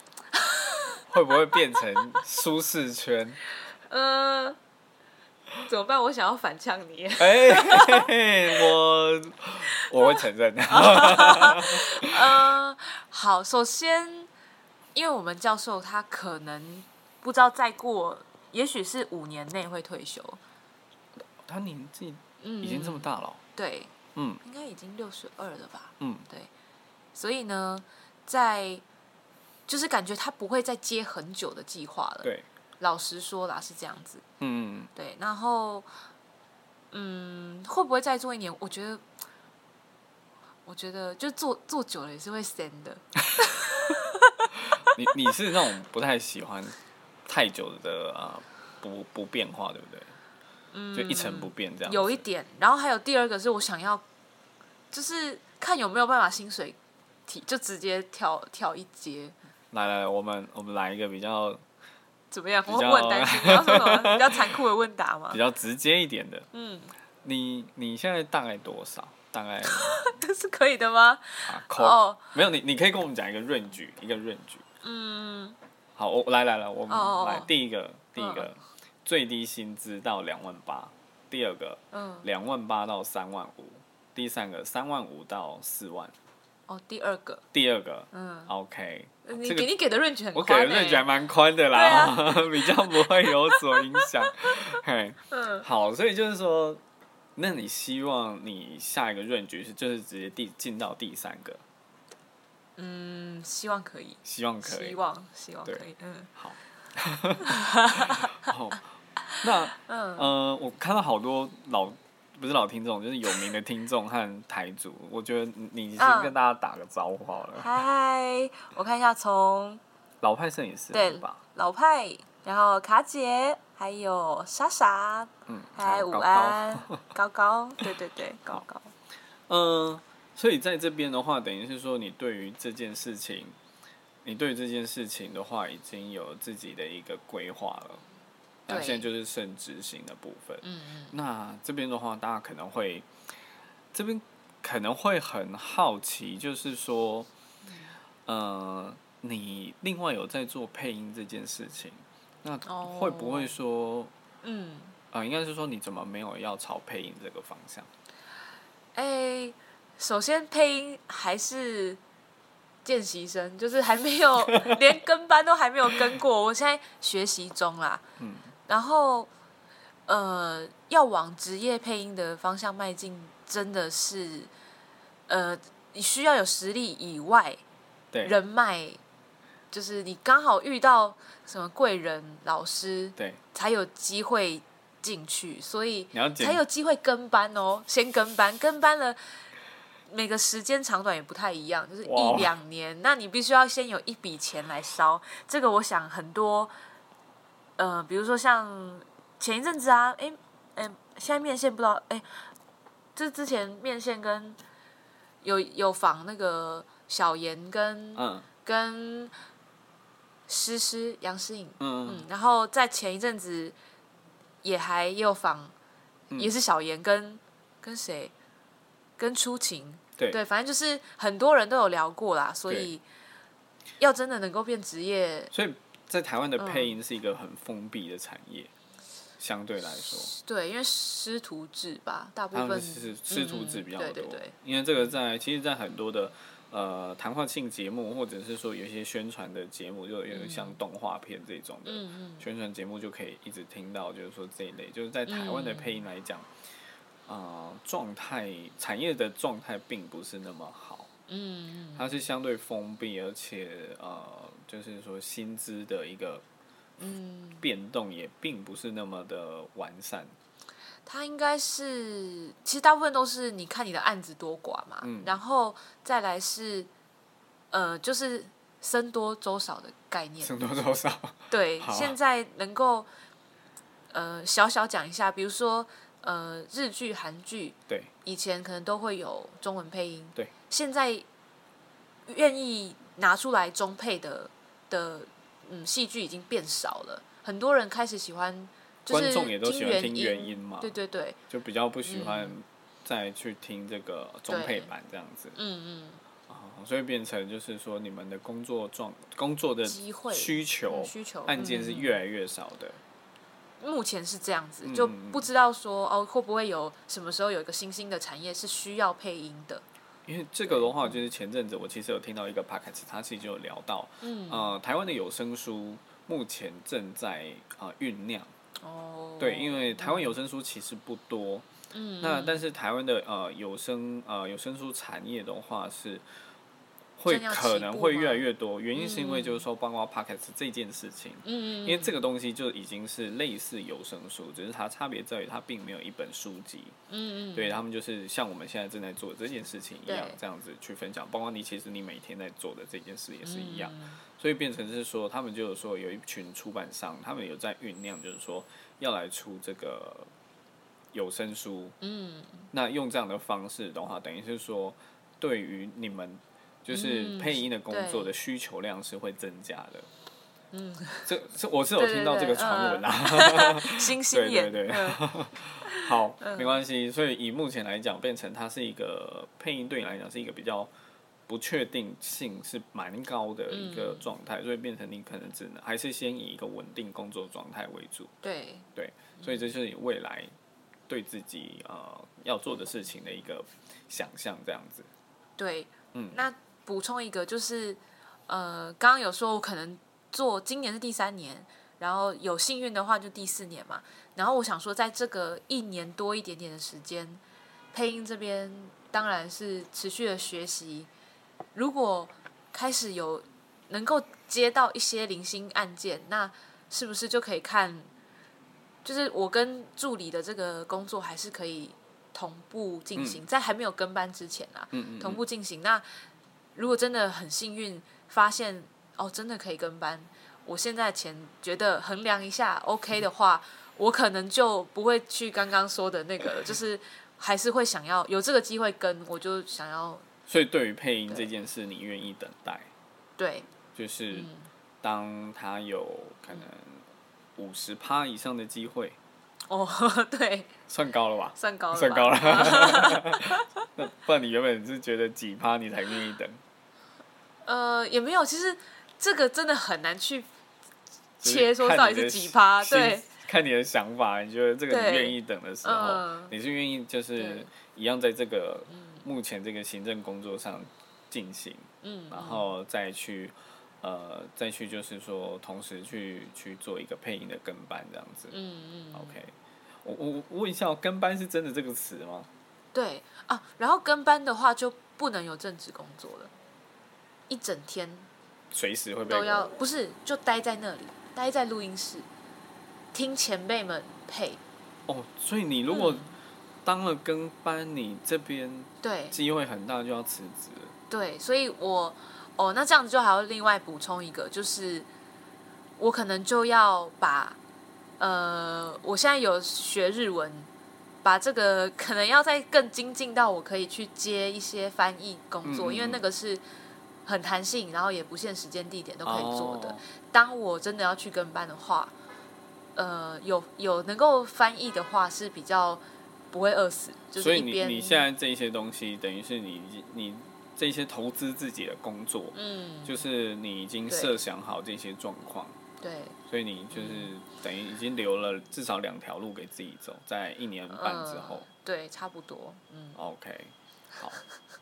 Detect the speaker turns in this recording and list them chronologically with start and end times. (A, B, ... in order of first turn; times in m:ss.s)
0:00.4-0:00.8 A
0:01.1-0:03.4 B
0:03.9-0:04.6 A
0:05.6-0:08.6 A
0:07.2-0:12.5 B
0:09.7-0:10.2 A
0:10.7-0:14.3 A
0:14.9-0:20.4 A
0:21.4-0:23.4 B
0:22.4-0:26.5 A
0:24.1-0:24.4 B
0:26.0-0:26.2 B
0:27.1-0:28.8 A
0:29.7-0:34.2 A
0:34.4-0:34.9 B
0:34.9-0:35.9 A
0:36.9-0:39.0 A
0:40.6-0:45.0 A
0:44.9-0:50.1 B
0:50.7-0:54.0 A
0:50.9-0:52.2 B
0:54.9-0:59.4 A
0:59.7-1:01.6 B
1:02.3-1:05.4 A
1:02.7-1:04.6 B
1:05.3-1:06.5 B
1:06.5-1:06.9 A
1:07.2-1:10.0 B
1:09.6-1:12.3 A
1:11.5-1:14.6 B
1:14.8-1:15.6 A
1:16.0-1:26.1 B
1:16.9-1:17.5 A
1:18.2-1:18.5 A
1:21.9-1:22.3 A
1:26.7-1:27.4 A
1:27.5-1:29.7 B
1:28.1-1:28.5 A
1:29.2-1:31.1 A
1:30.3-1:36.8 B
1:31.7-1:34.5 A
1:35.3-1:35.6 A
1:37.4-1:41.6 B
1:42.8-1:46.3 A
1:44.2-1:45.0 B
1:46.4-1:48.8 B
1:47.4-1:48.4 A
1:49.3-1:50.3 A
1:49.4-1:57.8 B
1:56.0-1:56.4 A
1:57.6-1:59.8 A
2:00.2-2:01.4 B
2:00.9-2:08.9 A
2:05.5-2:07.0 B
2:09.5-2:13.6 B
2:14.2-2:18.0 B
2:18.7-2:23.1 B
2:18.7-2:19.1 A
2:20.6-2:21.1 A
2:23.9-2:27.3 B
2:27.6-2:28.0 A
2:28.2-2:34.1 B
2:32.6-2:33.5 A
2:34.4-2:35.0 A
2:35.1-2:37.9 B
2:39.0-2:42.0 A
2:42.8-2:48.0 A
2:44.5-2:44.7 B
2:48.2-2:48.5 B
2:48.7-2:49.3 A
2:50.1-2:54.5 A
2:55.3-2:57.6 A
2:58.2-2:59.0 A
2:59.7-3:09.2 A
3:06.1-3:06.6 B
3:10.1-3:16.7 A
3:12.0-3:12.5 B
3:17.8-3:22.3 A
3:23.2-3:24.6 A
3:25.4-3:29.3 A
3:28.2-3:28.5 B
3:30.5-3:33.8 A
3:31.8-3:32.2 B
3:34.6-3:35.7 A
3:36.4-3:38.3 A
3:39.2-3:43.0 A
3:44.0-3:45.5 A
3:45.5-3:48.7 B
3:46.6-3:46.9 A
3:49.4-3:50.3 B
3:50.2-3:54.5 A
3:52.5-4:06.5 B
4:00.3-4:00.8 A
4:01.9-4:02.4 A
4:05.3-4:06.0 A
4:07.3-4:11.1 B
4:11.3-4:12.1 A
4:12.0-4:16.4 B
4:17.0-4:17.6 A
4:17.6-4:20.3 B
4:21.0-4:26.9 A
4:25.0-4:25.4 B
4:27.7-4:30.6 A
4:30.4-4:32.1 B
4:31.5-4:33.1 A
4:34.1-4:41.2 A
4:42.3-4:51.4 A
4:49.1-4:50.9 B
4:51.5-4:55.6 B
4:52.0-4:52.5 A
4:54.5-4:54.9 A
4:55.5-4:56.2 A
4:56.5-5:03.0 B
4:59.9-5:02.2 A
5:03.8-5:09.8 A
5:04.8-5:05.5 B
5:10.3-5:18.5 B
5:10.6-5:11.2 A
5:14.2-5:14.7 A
5:18.8-5:20.4 A
5:19.4-5:21.6 B
5:21.9-5:22.6 A
5:22.2-5:26.2 B
5:27.2-5:37.0 B
5:27.3-5:29.6 A
5:31.4-5:32.2 A
5:37.1-5:37.8 A
5:37.5-5:50.3 B
5:40.1-5:40.4 A
5:43.4-5:44.2 A
5:51.1-5:52.0 B
5:52.0-5:52.7 A
5:52.7-6:00.1 B
5:56.9-5:58.3 A
6:00.7-6:01.3 A
6:01.2-6:10.9 B
6:02.0-6:05.3 A
6:05.8-6:06.8 A
6:11.5-6:18.3 B
6:13.7-6:14.3 A
6:18.4-6:18.9 A
6:19.0-6:20.5 B
6:19.4-6:19.6 A
6:21.1-6:25.1 B
6:25.6-6:37.4 A
6:26.1-6:26.4 B
6:37.9-6:41.1 A
6:41.8-6:48.1 A
6:49.0-6:56.0 A
6:53.2-6:53.4 B
6:54.9-6:55.4 B
6:56.8-7:10.2 A
7:10.5-7:12.9 B
7:13.4-7:13.7 A
7:14.0-7:14.5 B
7:14.3-7:14.7 A
7:15.0-7:17.0 B
7:17.6-7:19.2 B
7:19.7-7:20.7 A
7:20.9-7:26.6 B
7:21.6-7:23.8 A
7:27.6-7:30.5 A
7:31.4-7:33.3 A
7:31.4-7:48.5 B
7:34.9-7:36.5 A
7:37.4-7:37.7 A
7:38.9-7:39.2 A
7:42.0-7:42.7 A
7:48.5-7:49.4 A
7:49.1-7:49.5 B
7:50.0-7:52.5 B
7:52.9-7:56.5 A
7:57.5-7:58.3 A
7:58.7-7:59.7 B
7:59.3-8:02.2 A
8:03.1-8:04.6 A
8:05.1-8:06.3 B
8:05.9-8:06.4 A
8:06.8-8:10.9 B
8:09.0-8:09.4 A
8:11.1-8:15.1 A
8:16.0-8:17.6 A
8:18.2-8:20.7 A
8:21.2-8:26.6 A
8:25.6-8:26.2 B
8:27.2-8:32.1 A
8:29.2-8:30.0 B
8:33.0-8:38.2 A
8:37.4-8:45.8 B
8:42.5-8:43.2 A
8:44.1-8:44.4 A
8:46.0-8:46.4 A
8:46.5-8:51.7 B
8:46.9-8:47.3 A
8:50.9-8:53.2 A
8:53.2-8:54.4 B